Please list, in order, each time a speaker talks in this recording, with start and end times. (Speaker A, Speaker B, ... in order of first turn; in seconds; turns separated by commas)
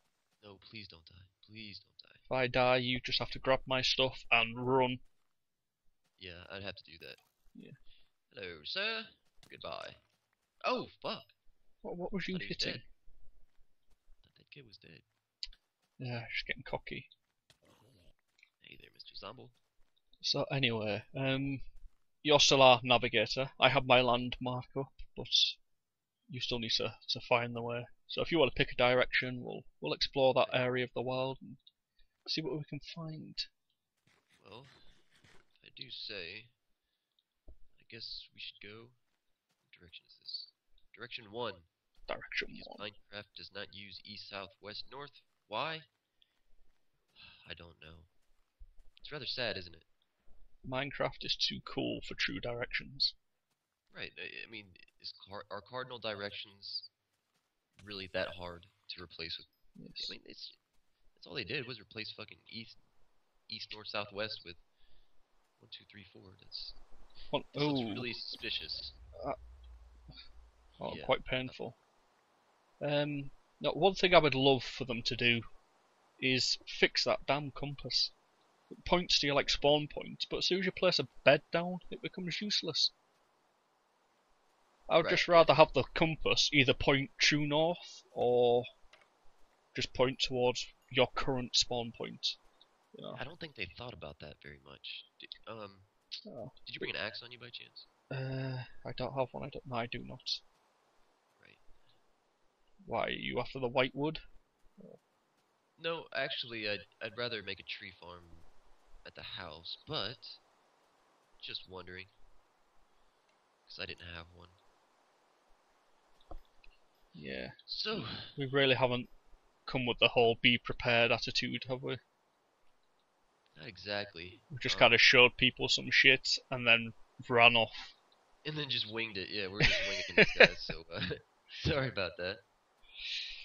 Speaker A: 0.4-2.2, Speaker B: 2.3-5.0, Speaker A: 6.2-7.2, Speaker A: 8.3-10.0, Speaker A: 10.6-11.3, Speaker B: 11.8-12.8, Speaker A: 12.3-12.8, Speaker A: 14.2-15.1, Speaker B: 16.0-17.1, Speaker A: 18.6-19.6, Speaker B: 20.2-21.6, Speaker B: 22.2-25.6, Speaker B: 26.3-31.6, Speaker A: 30.4-30.9, Speaker B: 32.3-33.5, Speaker A: 34.4-34.8, Speaker A: 35.6-36.5, Speaker A: 37.8-39.0, Speaker A: 39.7-41.7, Speaker B: 42.1-42.9, Speaker A: 42.5-45.9, Speaker A: 47.2-48.1, Speaker A: 49.0-49.9, Speaker B: 50.6-53.1, Speaker A: 53.9-56.9, Speaker A: 57.8-59.5, Speaker B: 59.8-60.2, Speaker A: 60.0-60.6, Speaker A: 61.2-62.8, Speaker A: 63.5-64.6, Speaker A: 65.6-66.8, Speaker B: 67.3-68.1, Speaker A: 67.5-69.0, Speaker A: 70.8-71.6, Speaker B: 70.8-71.8, Speaker B: 72.8-75.5, Speaker B: 76.2-78.1, Speaker B: 78.7-82.9, Speaker B: 84.9-88.7, Speaker A: 85.0-85.5, Speaker B: 89.7-92.4, Speaker B: 92.9-93.2, Speaker A: 93.1-95.9, Speaker B: 96.3-96.9, Speaker A: 96.6-97.9, Speaker B: 98.1-100.4, Speaker A: 101.4-101.7, Speaker B: 102.8-104.2, Speaker A: 105.8-108.5, Speaker A: 109.0-110.4, Speaker A: 111.4-112.1, Speaker A: 113.7-114.6, Speaker B: 117.2-119.1, Speaker A: 117.7-118.4, Speaker B: 119.7-122.0, Speaker A: 123.5-125.0, Speaker B: 124.5-128.0, Speaker A: 128.4-132.4, Speaker B: 129.6-130.5